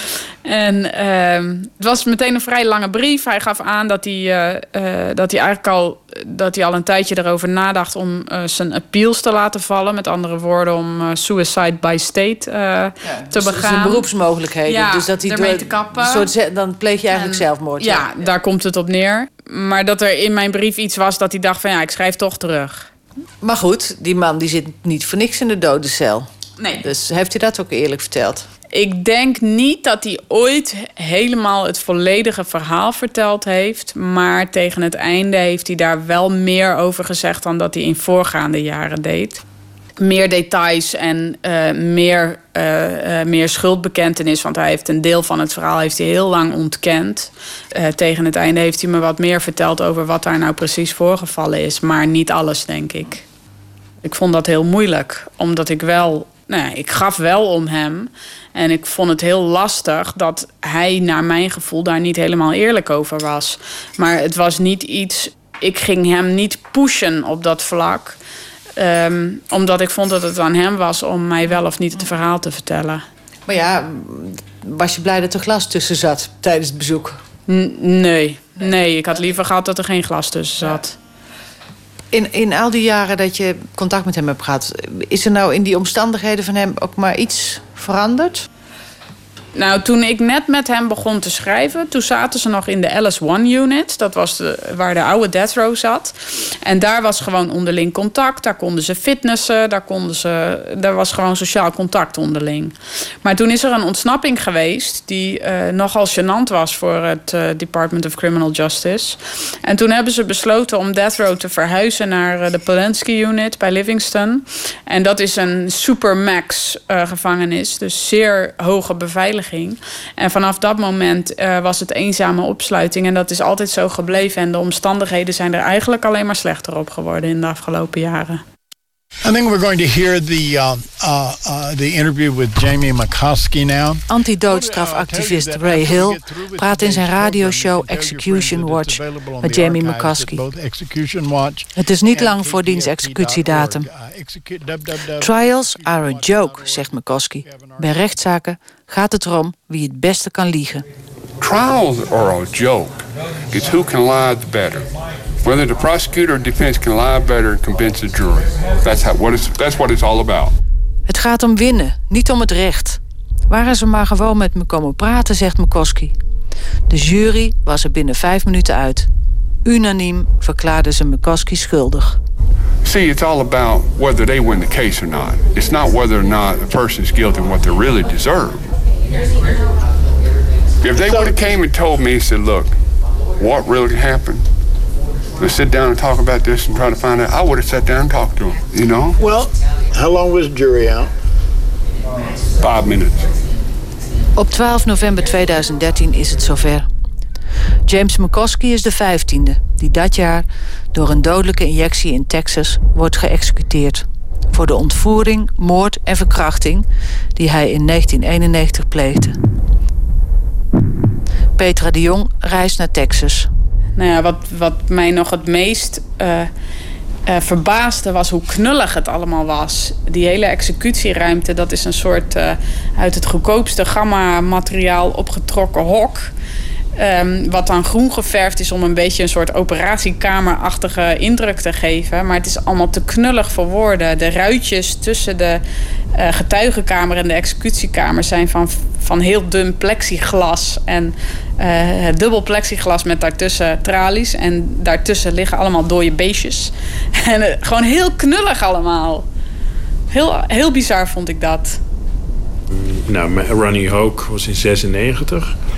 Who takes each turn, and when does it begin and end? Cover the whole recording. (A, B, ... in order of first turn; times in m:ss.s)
0:00.4-0:14.1 A
0:13.0-0:18.1 B
0:14.7-0:16.3 A
0:17.1-0:22.9 A
0:23.4-0:26.3 B
0:26.6-0:26.8 A
0:26.8-0:28.5 B
0:28.7-0:39.4 A
0:40.0-0:53.2 A
0:54.0-1:08.2 A
1:08.8-1:13.0 A
1:13.4-1:17.2 B
1:17.5-1:21.0 A
1:22.1-1:28.5 B
1:29.6-2:08.4 A
2:09.2-2:28.1 C
2:14.1-2:20.4 B
2:21.7-2:23.9 B
2:25.2-2:30.8 B
2:31.4-2:34.9 D
2:35.4-2:40.5 D
2:41.1-2:46.1 B
2:46.9-2:49.1 B
2:49.6-2:52.2 B
2:52.8-2:58.7 D
3:00.8-3:02.7 D
3:01.0-3:01.5 C
3:03.4-3:04.4 D
3:05.4-3:09.2 D
3:09.2-3:11.1 C
3:12.6-3:13.3 D
3:14.4-3:16.9 B
3:17.9-3:29.4 B
3:31.6-3:33.5 B
3:34.0-3:36.5 A
3:37.3-3:46.3 A
3:47.0-3:55.6 A
3:56.1-4:09.3 A
4:10.1-4:11.8 A
4:12.7-4:15.5 E